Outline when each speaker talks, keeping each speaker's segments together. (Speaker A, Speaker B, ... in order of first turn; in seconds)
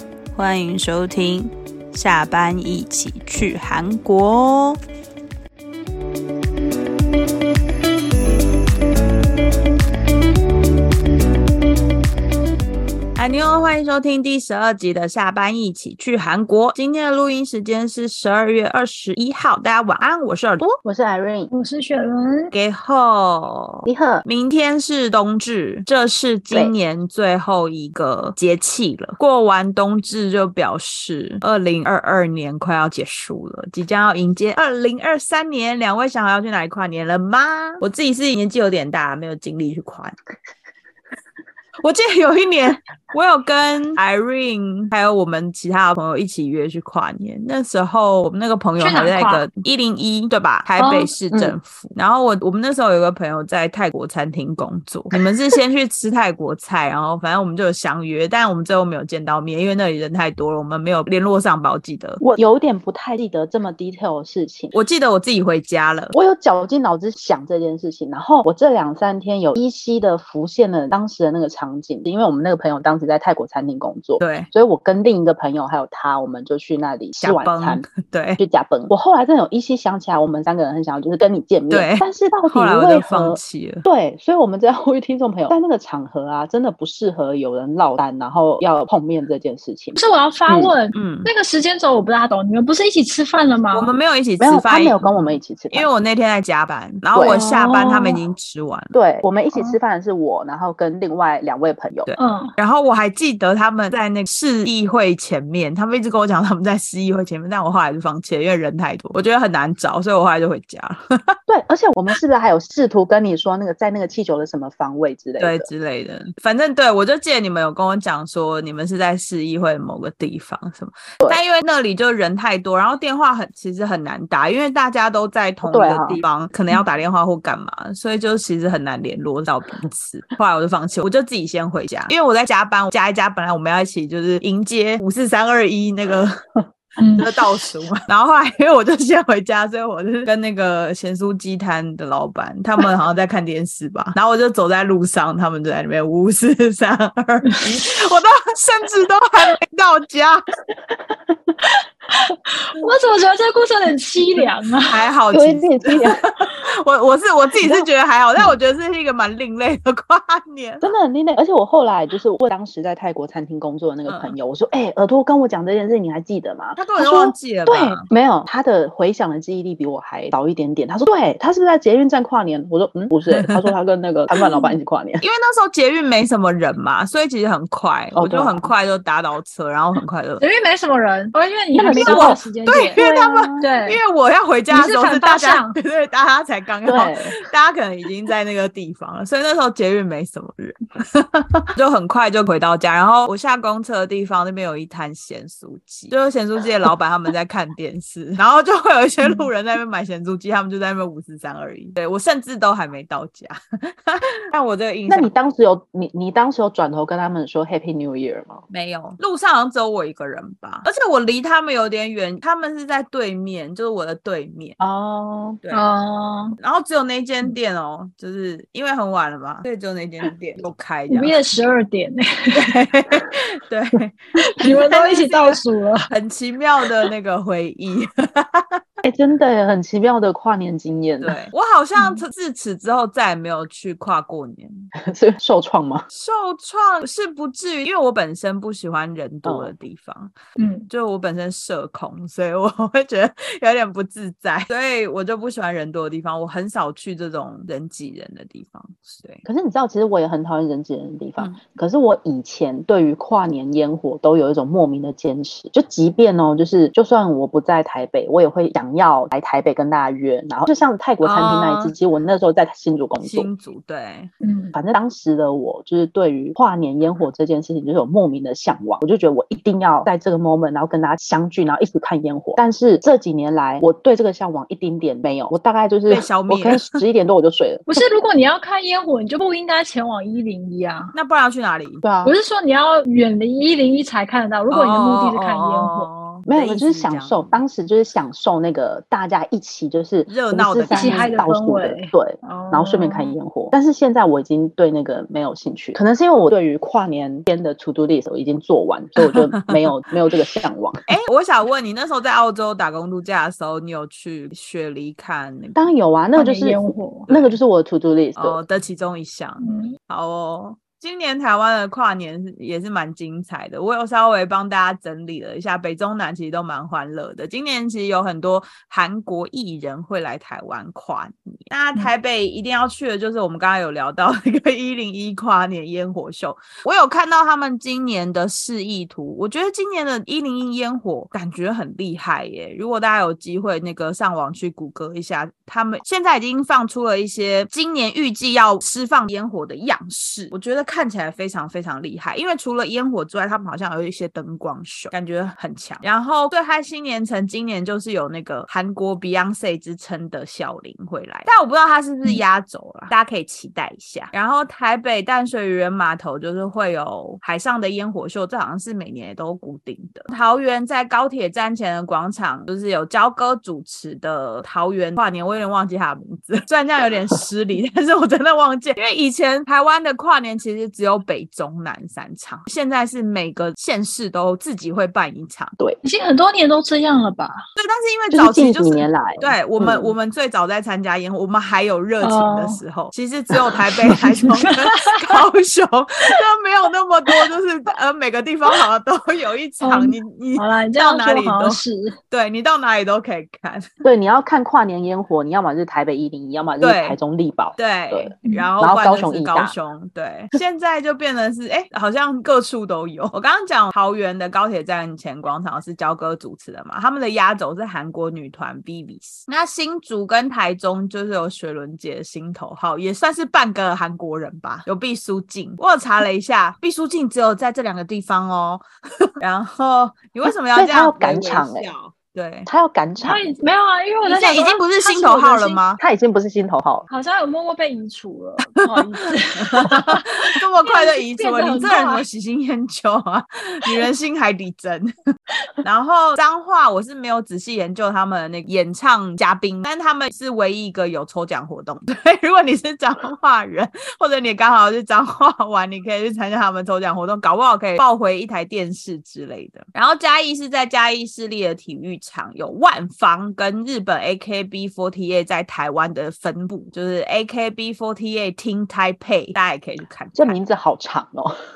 Speaker A: 0.3-4.8, 13.2-20.6, 22.5-40.1, 41.8-62.2, 64.7-66.1, 74.2-74.5, 77.2-78.4, 81.7-83.8, 90.9-91.3, 93.7-95.0, 95.7-98.9, 102.0-111.4, 115.4-136.4, 137.2-150.4, 154.8-160.9, 164.1-164.3, 166.8-168.1, 173.3-173.6, 175.2-180.4, 181.9-205.3, 208.7-214.8, 216.6-221.3, 222.5-228.8, 231.2-234.9, 236.1-240.3, 240.9-249.4, 261.2-261.9, 263.2-264.3, 276.1-277.0, 281.1-282.0, 284.7-287.6, 290.3-291.3, 301.1-305.9, 307.3-307.6, 308.4-375.8, 377.8-393.9, 396.8-397.2, 397.8-418.8, 419.4-422.7, 424.2-426.0, 428.8-435.1, 435.8-460.6
Speaker B: 20.6-21.5, 23.9-24.2, 62.2-64.7, 66.1-77.8, 78.4-90.7, 94.4-95.9, 97.1-97.4, 98.9-102.1, 111.5-115.7, 125.6-126.2, 155.3-156.2, 157.6-157.9, 160.8-175.2, 178.1-178.7, 181.8-182.4, 183.0-183.7, 186.8-187.3, 205.1-208.6, 214.8-215.6, 229.0-231.4, 235.0-236.1, 239.4-239.7, 249.4-263.5, 264.7-278.0, 282.0-282.3, 286.5-301.0, 305.8-308.6, 378.3-380.1, 394.0-399.7, 420.7-421.9, 422.7-423.6, 426.0-427.1, 460.3-461.6
Speaker C: 21.5-22.5, 48.8-49.4, 50.8-51.1, 90.0-93.9, 97.3-98.2, 102.2-102.5, 137.0-137.3, 151.7-155.0, 180.4-183.0, 183.5-184.0, 184.7-185.8, 215.7-216.6, 221.1-222.7, 224.6-226.1, 232.0-232.2, 240.6-240.9, 264.4-264.7, 277.9-281.1, 282.2-286.1, 290.9-293.3, 306.4-307.3, 309.6-309.9, 376.0-377.6, 382.2-382.8, 384.0-385.4, 389.8-392.1, 398.4-398.7, 423.2-425.8, 427.1-432.2